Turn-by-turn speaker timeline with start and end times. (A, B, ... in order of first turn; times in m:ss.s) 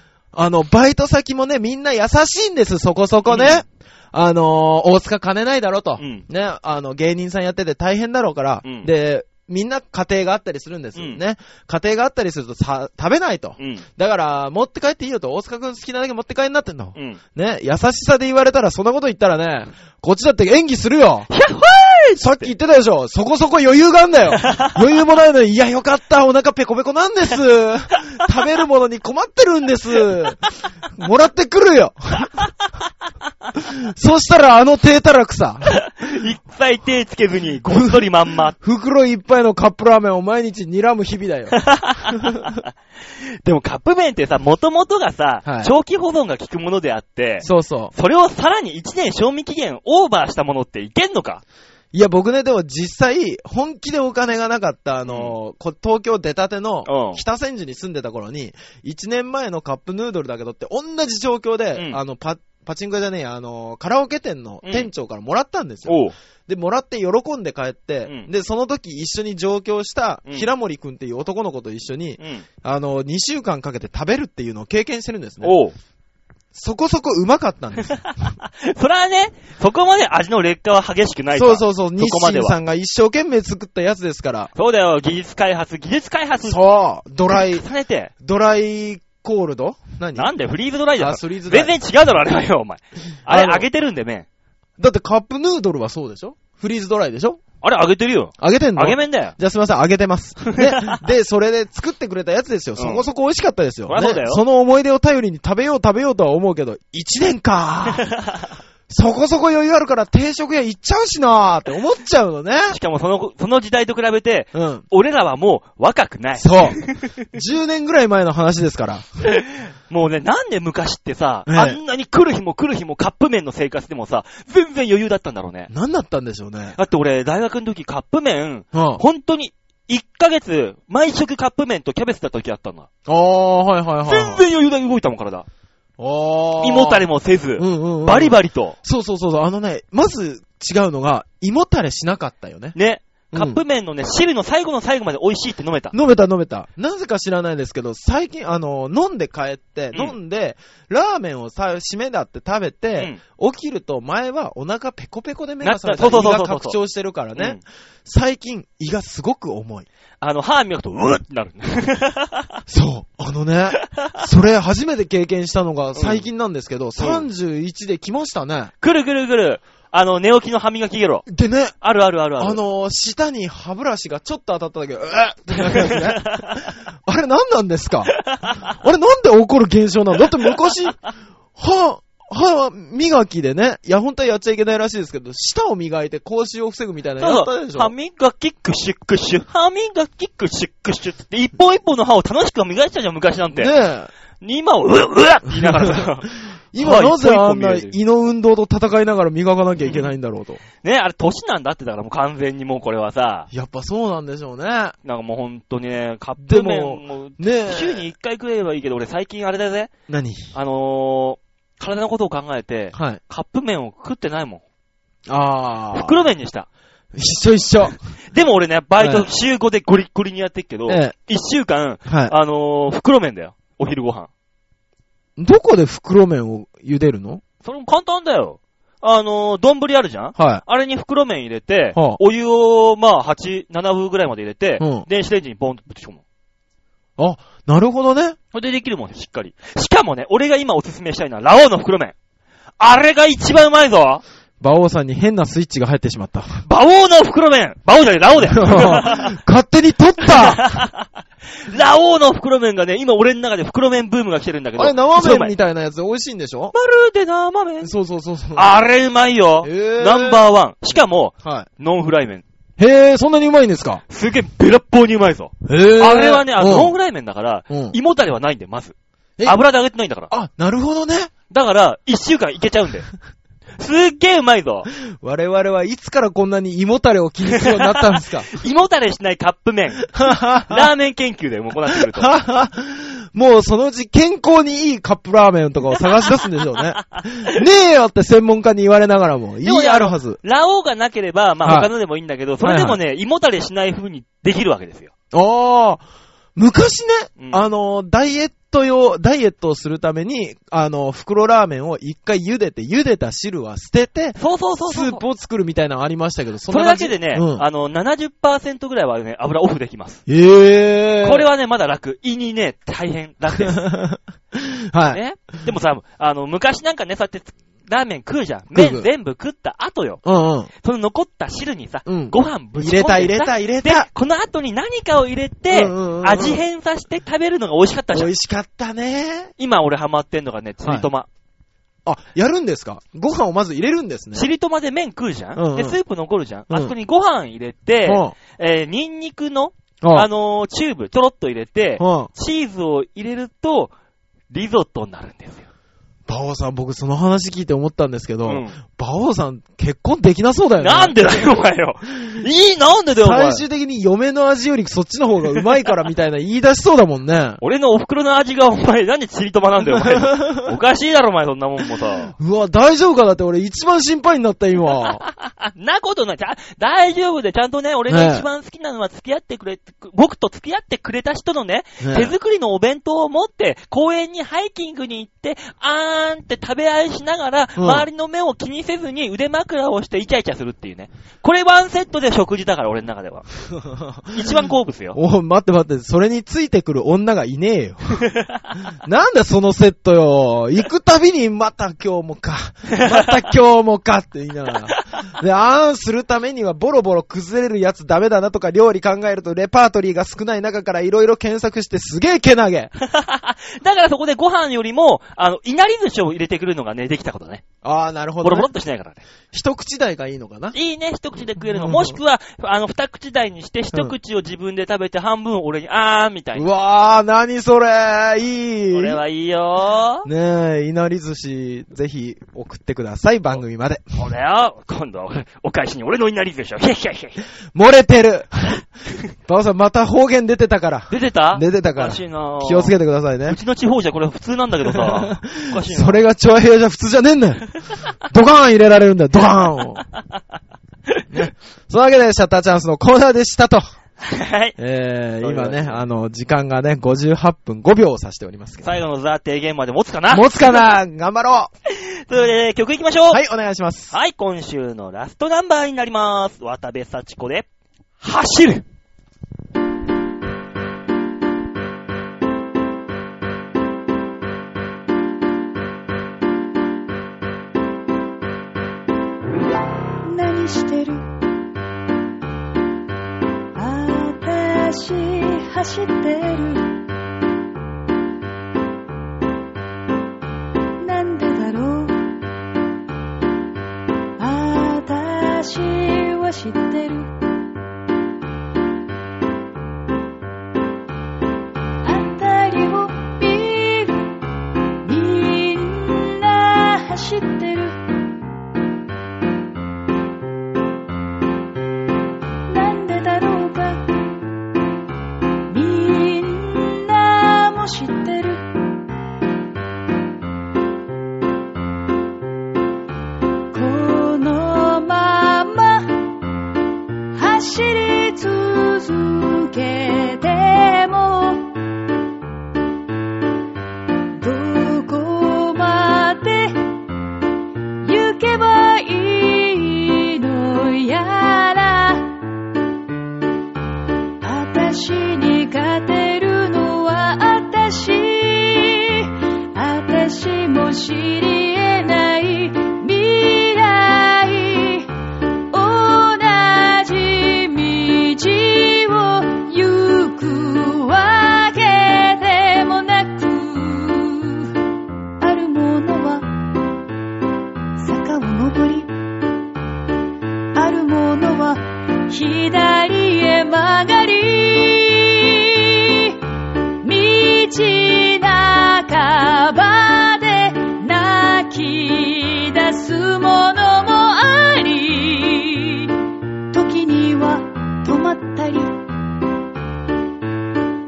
0:00.3-0:21.3 A
0:03.3-0:03.6 B
0:06.0-0:06.2 B
0:08.6-0:08.9 B
0:13.6-0:13.8 B
0:21.3-0:22.5 B
0:22.2-0:30.4 A
0:24.4-0:24.8 B
0:30.9-0:32.3 A
0:33.5-0:35.8 A
0:35.7-0:38.5 B
0:37.7-0:42.4 A
0:41.5-0:51.4 B
0:45.4-0:45.7 A
0:47.4-0:47.9 A
0:51.9-1:15.6 A
0:55.1-0:55.3 B
0:56.8-0:57.2 B
1:04.6-1:04.9 B
1:05.9-1:06.1 B
1:12.2-1:12.4 B
1:15.4-1:15.7 B
1:16.5-1:18.0 A
1:18.0-1:22.5 B
1:21.3-1:24.5 A
1:24.5-1:26.6 B
1:26.4-1:27.6 A
1:27.3-1:28.1 B
1:28.2-1:30.3 A
1:30.1-1:34.2 B
1:31.0-1:31.7 A
1:33.3-1:33.6 A
1:34.8-1:37.4 A
1:37.6-1:39.3 B
1:38.4-1:48.1 A
1:40.5-1:41.0 B
1:42.8-1:43.0 B
1:43.9-1:44.4 B
1:48.1-1:48.4 B
1:48.9-1:52.8 A
1:52.7-1:57.1 B
1:54.5-1:54.8 A
1:56.4-1:56.8 A
1:57.3-1:59.0 A
1:59.2-2:05.7 B
2:01.5-2:01.8 A
2:05.7-2:06.8 A
2:06.8-2:12.9 B
2:08.7-2:09.0 A
2:13.0-2:14.4 A
2:14.0-2:15.4 B
2:16.0-2:22.8 A
2:16.6-2:18.8 B
2:22.7-2:26.0 B
2:23.3-2:23.6 A
2:25.9-2:39.9 A
2:35.6-2:36.8 B
2:37.3-2:37.6 B
2:40.2-2:42.6 B
2:42.7-2:48.7 A
2:45.9-2:46.3 B
2:47.0-2:47.2 B
2:48.8-2:51.3 B
2:51.3-2:51.7 A
2:51.8-2:52.6 B
2:52.4-3:01.0 A
2:55.7-2:56.6 B
2:58.2-2:58.6 B
3:01.5-3:07.9 A
3:07.2-3:13.7 B
3:13.6-3:14.1 A
3:14.4-3:17.9 B
3:15.5-3:16.1 A
3:16.7-3:20.6 A
3:19.8-3:20.1 B
3:20.8-3:23.5 B
3:23.5-3:25.0 A
3:25.0-3:29.9 B
3:26.4-3:28.1 A
3:30.1-3:30.5 A
3:30.5-3:34.6 B
3:32.9-3:33.2 A
3:35.3-3:36.2 A
3:35.9-3:36.7 B
3:37.1-3:38.0 A
3:38.3-3:44.3 B
3:39.0-3:39.3 A
3:40.9-3:41.1 A
3:42.0-3:42.3 A
3:45.4-3:47.4 A
3:47.6-3:56.2 B
3:50.4-3:50.6 A
3:54.8-3:55.0 A
3:57.2-3:58.4 A
3:58.5-4:02.1 B
4:02.8-4:04.2 B
4:04.6-4:06.6 A
4:06.6-4:09.3 B
4:08.4-4:10.8 A
4:10.2-4:15.5 B
4:14.8-4:16.7 A
4:16.7-4:17.9 B
4:17.8-4:18.8 A
4:18.5-4:22.4 B
4:19.6-4:20.4 A
4:21.4-4:21.7 A
4:22.8-4:24.0 A
4:24.1-4:30.3 B
4:25.6-4:26.9 A
4:27.7-4:28.0 A
4:30.3-4:31.3 A
4:31.5-4:33.1 B
4:33.8-4:34.9 B
4:35.0-4:38.5 A
4:37.5-4:42.3 B
4:40.1-4:40.9 A
4:41.9-4:50.4 A
4:47.0-4:47.5 B
4:49.6-4:55.1 B
4:51.6-4:51.9 A
4:52.6-4:53.0 A
4:55.3-4:56.0 A
4:56.6-5:07.6 A
4:57.4-4:57.7 B
5:04.4-5:05.2 B
5:06.7-5:10.2 B
5:10.3-5:11.5 A
5:11.2-5:13.8 B
5:13.5-5:15.2 A
5:15.1-5:20.2 B
5:18.7-5:19.1 A
5:20.2-5:20.7 A
5:20.8-5:28.3 B
5:22.0-5:24.1 A
5:25.7-5:26.6 A
5:28.1-5:29.5 A
5:29.6-5:31.3 B
5:32.0-5:34.5 A
5:34.3-5:43.9 B
5:35.6-5:36.0 A
5:38.0-5:38.3 A
5:40.0-5:40.3 A
5:42.0-5:42.3 A
5:44.5-5:45.7 B
5:46.3-5:51.5 A
5:48.4-5:48.8 B
5:50.8-5:53.6 B
5:53.2-5:57.6 A
5:57.6-6:02.3 B
5:59.8-6:00.7 A
6:02.3-6:05.2 A
6:05.2-6:23.5 B
6:08.1-6:08.5 A
6:12.0-6:12.3 A
6:17.8-6:18.0 A
6:23.7-6:28.2 A
6:24.3-6:25.2 B
6:28.2-6:28.7 B
6:29.0-6:42.9 A
6:32.9-6:33.4 B
6:34.9-6:35.2 B
6:43.0-6:47.6 B
6:47.8-6:48.7 A
6:48.4-6:49.2 B
6:49.5-6:50.8 A
6:50.7-6:56.7 B
6:51.6-6:52.2 A
6:56.5-6:59.2 A
6:58.9-7:00.3 B
7:00.2-7:04.0 A
7:04.2-7:07.4 B
7:07.7-7:08.8 A
7:09.4-7:13.6 A
7:11.1-7:16.2 B
7:14.9-7:17.7 A
7:18.3-7:20.0 A
7:21.3-7:23.8 A
7:24.2-7:24.8 B
7:24.8-7:28.8 A
7:25.4-7:26.0 B
7:28.8-7:30.8 B
7:30.3-7:31.7 A
7:31.9-7:33.4 B
7:33.3-7:34.1 A
7:34.1-7:37.6 B
7:38.2-7:38.8 B
7:50.2-7:51.2 C
7:53.7-7:57.0 C
8:01.0-8:02.3 C
8:04.4-8:07.3 C
8:12.0-8:14.3 C
8:15.0-8:18.0 C
8:22.7-8:24.2 C
8:25.7-8:28.7 C
8:33.7-8:36.4 C
8:37.3-8:41.7 C
8:44.3-8:46.9 C
8:48.0-8:52.4 C
8:54.4-9:05.1 C
9:05.7-9:14.7 C
9:15.4-9:16.6 C
9:18.0-9:19.1 C
9:20.7-9:26.4 C
9:27.0-9:36.1 C
9:36.7-9:39.0 C